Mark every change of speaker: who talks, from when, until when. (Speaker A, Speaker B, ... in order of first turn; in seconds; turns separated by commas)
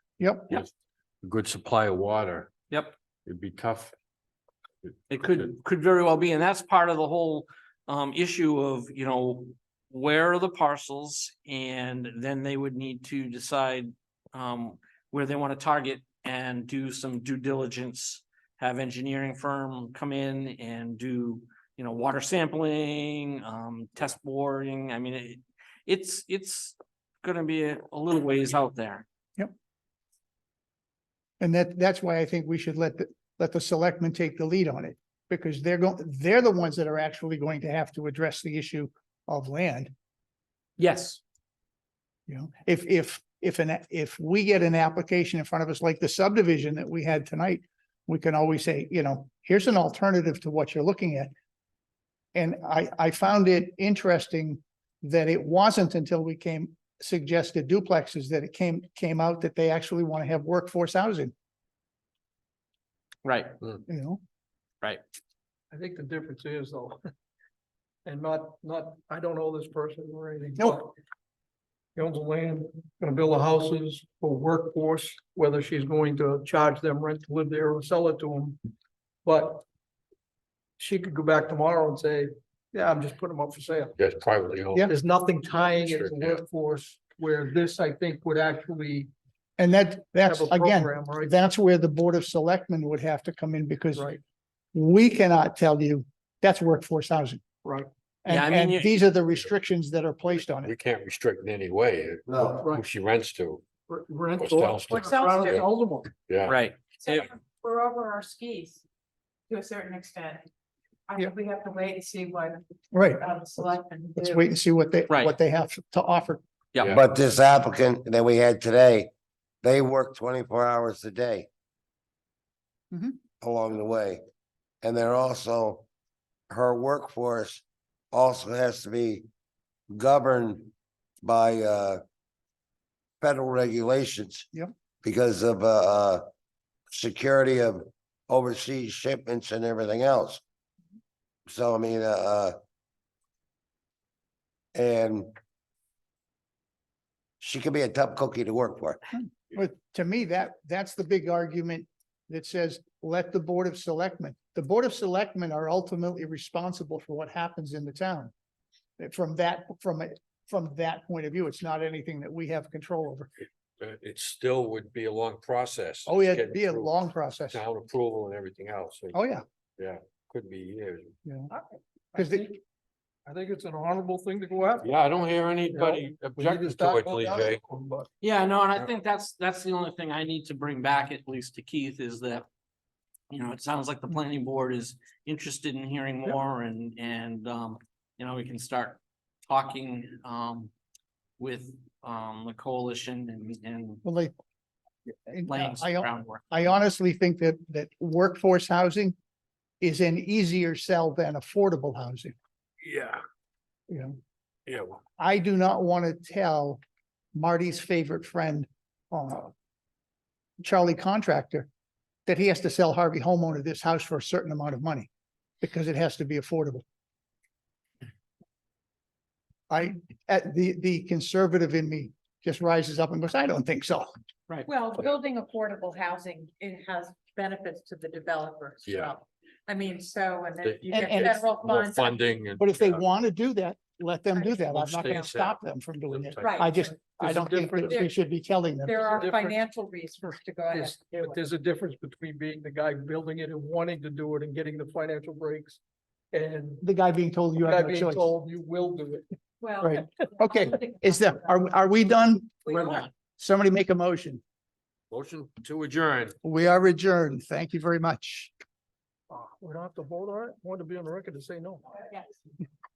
Speaker A: 0.2-0.6, Speaker B: 1.2-2.6, Speaker B: 3.2-3.9, Speaker C: 5.1-29.0, Speaker A: 31.4-39.9, Speaker C: 40.8-41.2, Speaker A: 42.3-51.3, Speaker A: 52.3-61.3, Speaker C: 63.2-63.6, Speaker A: 63.9-64.2, Speaker D: 65.7-67.0, Speaker D: 68.0-70.9, Speaker D: 72.0-78.6, Speaker D: 79.2-79.6, Speaker D: 80.8-83.9, Speaker B: 84.0-84.9, Speaker D: 84.9-89.1, Speaker B: 85.7-86.4, Speaker A: 89.6-94.1, Speaker D: 90.2-91.3, Speaker D: 93.9-94.2, Speaker A: 94.7-97.4, Speaker D: 97.6-97.9, Speaker A: 98.2-100.7, Speaker C: 98.3-99.0, Speaker B: 100.6-103.6, Speaker E: 102.3-102.6, Speaker D: 103.9-106.1, Speaker B: 104.4-105.7, Speaker F: 104.9-105.6, Speaker B: 106.3-106.6, Speaker C: 106.5-107.3, Speaker F: 107.0-108.8, Speaker F: 109.5-110.5, Speaker F: 111.1-112.6, Speaker A: 112.9-113.2, Speaker F: 113.2-114.4, Speaker A: 114.2-116.4, Speaker E: 116.9-119.1, Speaker E: 119.6-121.5, Speaker A: 122.9-123.2, Speaker E: 123.4-124.2, Speaker E: 124.8-125.8, Speaker E: 126.5-129.2, Speaker E: 129.9-130.7, Speaker E: 131.2-132.0, Speaker E: 133.2-134.5, Speaker E: 135.0-136.2, Speaker E: 136.9-140.4, Speaker E: 141.5-142.6, Speaker E: 144.7-145.3, Speaker E: 147.4-149.0, Speaker A: 149.1-158.3, Speaker A: 159.0-163.3, Speaker B: 163.8-167.0, Speaker A: 166.1-167.6, Speaker B: 167.5-169.2, Speaker A: 169.1-169.4, Speaker B: 169.8-171.1, Speaker D: 172.1-172.5, Speaker A: 172.1-172.5, Speaker D: 173.2-174.9, Speaker B: 174.8-177.6, Speaker D: 175.7-178.1, Speaker C: 178.2-182.4, Speaker C: 183.3-190.7, Speaker C: 191.4-194.0, Speaker A: 194.0-194.3, Speaker A: 195.3-199.2, Speaker C: 195.5-196.4, Speaker A: 199.8-202.3, Speaker B: 202.8-203.2, Speaker A: 203.9-204.2, Speaker B: 204.7-205.0, Speaker A: 205.2-206.8, Speaker A: 207.3-209.5, Speaker A: 210.6-211.7, Speaker A: 212.3-215.1, Speaker A: 215.6-216.8, Speaker A: 219.7-224.1, Speaker F: 224.7-232.2, Speaker B: 228.8-229.2, Speaker B: 230.6-233.0, Speaker A: 230.9-231.3, Speaker A: 232.6-239.5, Speaker B: 234.6-237.0, Speaker F: 236.4-236.8, Speaker D: 237.2-238.0, Speaker F: 238.8-241.3, Speaker D: 239.1-239.5, Speaker D: 240.7-245.8, Speaker D: 246.3-246.8, Speaker A: 246.8-248.2, Speaker D: 247.6-249.2, Speaker F: 249.6-251.5, Speaker A: 249.8-254.4, Speaker F: 252.7-253.0, Speaker B: 255.1-256.3, Speaker A: 256.4-258.5, Speaker D: 259.3-261.9, Speaker F: 262.0-262.3